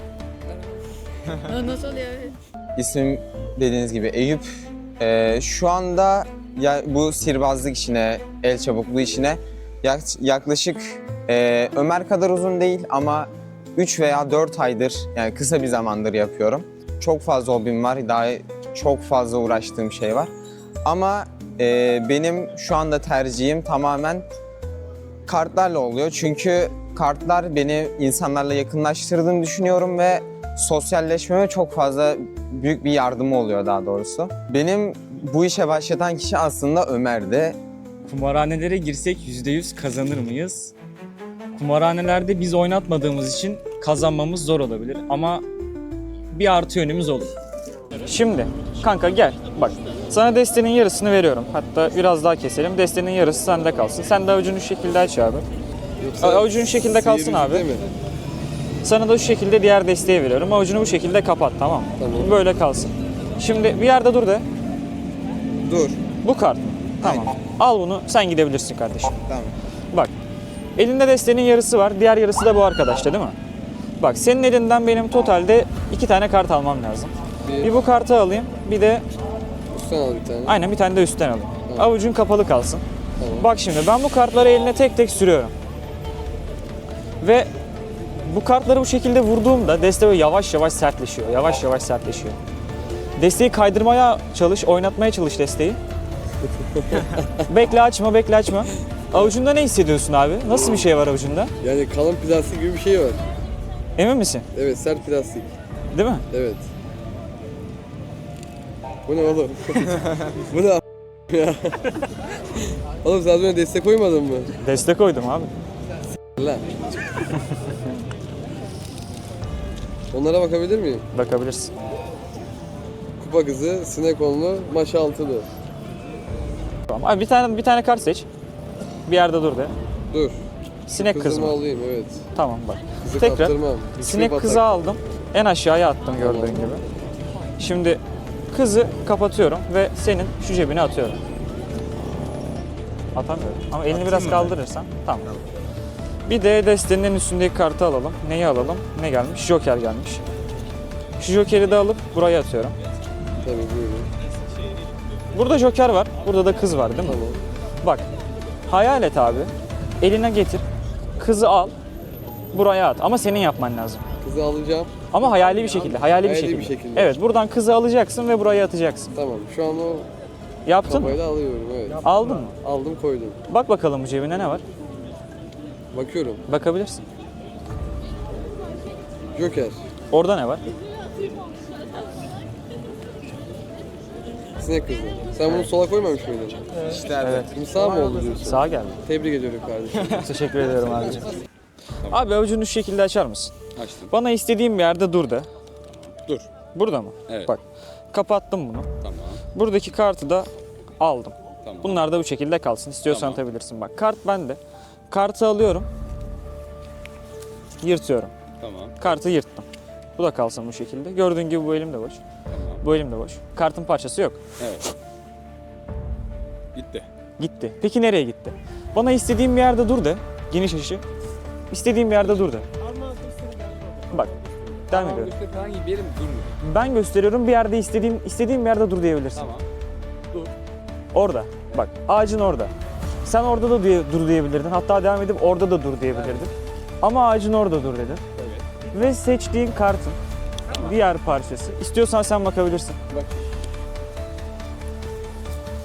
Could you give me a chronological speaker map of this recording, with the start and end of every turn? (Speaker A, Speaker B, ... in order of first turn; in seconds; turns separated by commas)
Speaker A: 0.4-2.4, Speaker B: 2.8-4.5, Speaker B: 5.0-20.3, Speaker B: 20.8-24.2, Speaker B: 25.2-37.6, Speaker C: 38.0-40.7, Speaker C: 41.5-45.4, Speaker C: 46.3-47.3, Speaker C: 48.0-55.5, Speaker D: 56.0-57.9, Speaker C: 56.2-57.7, Speaker C: 58.8-64.4, Speaker D: 62.0-62.3, Speaker B: 65.6-66.0, Speaker C: 66.2-69.1, Speaker B: 67.0-67.3, Speaker B: 69.1-69.6, Speaker C: 70.8-73.3, Speaker C: 74.0-79.0, Speaker D: 77.5-77.7, Speaker D: 79.7-80.5, Speaker C: 80.5-82.8, Speaker D: 83.2-83.5, Speaker C: 83.4-85.5, Speaker C: 87.2-87.5, Speaker C: 88.2-92.4, Speaker C: 93.2-95.8, Speaker D: 96.9-97.2, Speaker C: 97.4-101.5, Speaker D: 101.6-103.2, Speaker C: 104.0-104.5, Speaker D: 104.5-105.5, Speaker C: 105.9-106.2, Speaker D: 106.3-106.7, Speaker D: 109.0-112.0, Speaker D: 113.0-114.5, Speaker C: 114.6-115.5, Speaker D: 116.3-116.8, Speaker D: 120.1-121.0, Speaker C: 121.1-121.7, Speaker D: 123.2-125.5, Speaker C: 126.9-128.3, Speaker C: 129.1-129.7, Speaker D: 130.1-132.2, Speaker C: 130.9-131.6, Speaker C: 132.3-136.8, Speaker D: 133.0-134.7, Speaker D: 136.1-136.7, Speaker C: 137.6-141.2, Speaker C: 143.1-145.3, Speaker B: 143.9-144.5, Speaker C: 146.3-150.2, Speaker C: 151.2-152.7, Speaker D: 153.4-154.1, Speaker C: 155.3-157.2, Speaker D: 157.0-157.4, Speaker C: 157.8-158.1, Speaker C: 158.7-160.6, Speaker C: 161.2-161.7, Speaker C: 162.5-164.0, Speaker D: 164.2-167.2, Speaker C: 165.1-169.1, Speaker D: 169.1-170.1, Speaker C: 170.6-171.2, Speaker D: 170.8-173.4, Speaker C: 172.0-172.6, Speaker C: 173.5-174.6, Speaker D: 175.9-176.4, Speaker C: 176.5-177.1, Speaker D: 179.3-179.8, Speaker C: 180.1-180.7, Speaker D: 184.6-186.7, Speaker B: 186.8-187.5, Speaker C: 187.2-187.5, Speaker D: 187.5-190.2, Speaker C: 188.4-189.0, Speaker C: 190.1-191.3, Speaker C: 192.1-193.5, Speaker E: 193.8-194.1, Speaker C: 194.1-195.5, Speaker E: 195.9-196.5, Speaker C: 196.7-198.9, Speaker E: 197.3-197.5, Speaker E: 199.0-199.4, Speaker C: 199.5-200.5, Speaker C: 201.0-205.9, Speaker E: 201.6-202.0, Speaker E: 203.1-203.4, Speaker C: 207.8-208.3, Speaker E: 208.6-208.9, Speaker C: 209.0-209.7, Speaker C: 210.2-212.2, Speaker E: 212.5-212.8, Speaker C: 212.8-214.4, Speaker E: 214.6-214.8, Speaker E: 216.7-217.1, Speaker C: 217.4-221.0, Speaker C: 221.7-222.7, Speaker E: 224.9-226.6, Speaker C: 224.9-225.3, Speaker C: 226.6-229.5, Speaker C: 231.1-232.7, Speaker C: 233.2-238.2, Speaker C: 238.9-243.0